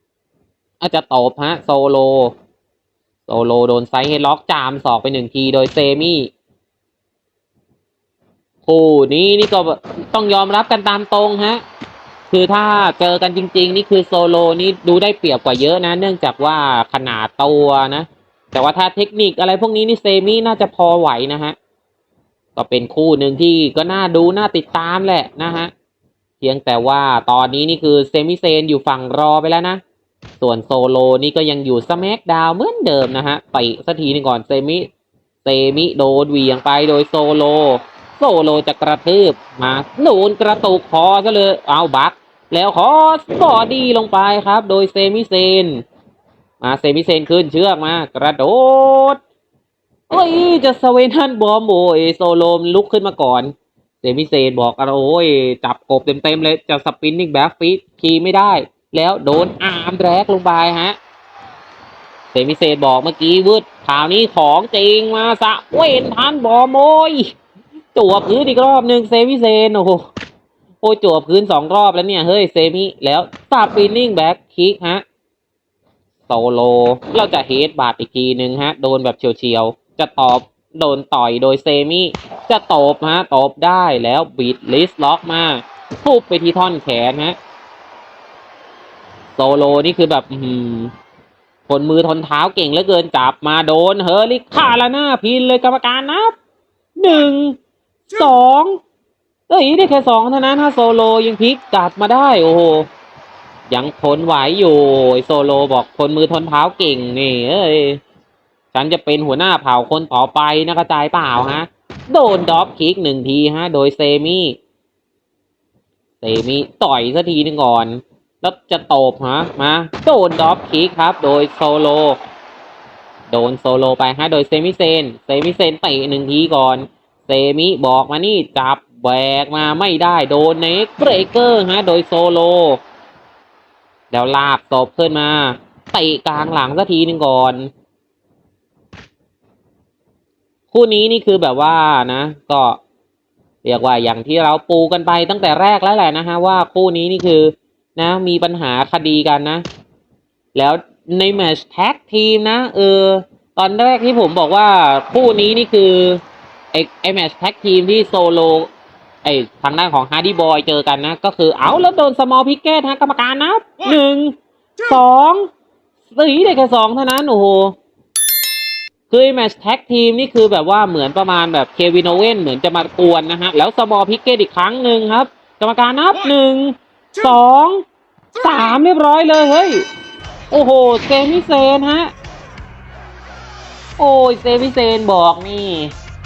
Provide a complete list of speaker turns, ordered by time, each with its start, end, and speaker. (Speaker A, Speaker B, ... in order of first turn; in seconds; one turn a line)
Speaker A: 0.8-2.3
Speaker A: 3.3-6.3
Speaker A: 8.7-11.6
Speaker A: 12.3-21.6
Speaker A: 22.6-25.7
Speaker A: 26.4-29.8
Speaker A: 30.4-34.9
Speaker A: 35.4-45.8
Speaker A: 46.6-49.2
Speaker A: 50.1-61.0
Speaker A: 62.3-67.3
Speaker A: 67.9-70.1
Speaker A: 70.8-75.0
Speaker A: 76.3-87.3
Speaker A: 89.3-90.9
Speaker A: 91.7-96.3
Speaker A: 97.0-98.8
Speaker A: 99.5-102.9
Speaker A: 103.7-108.0
Speaker A: 108.7-114.6
Speaker A: 116.2-122.2
Speaker A: 123.3-132.8
Speaker A: 134.1-137.7
Speaker A: 140.7-142.8
Speaker A: 143.6-149.6
Speaker A: 150.5-156.2
Speaker A: 156.7-158.7
Speaker A: 159.2-165.5
Speaker A: 166.1-167.8
Speaker A: 169.1-177.8
Speaker A: 178.3-179.8
Speaker A: 180.5-182.1
Speaker A: 184.0-185.9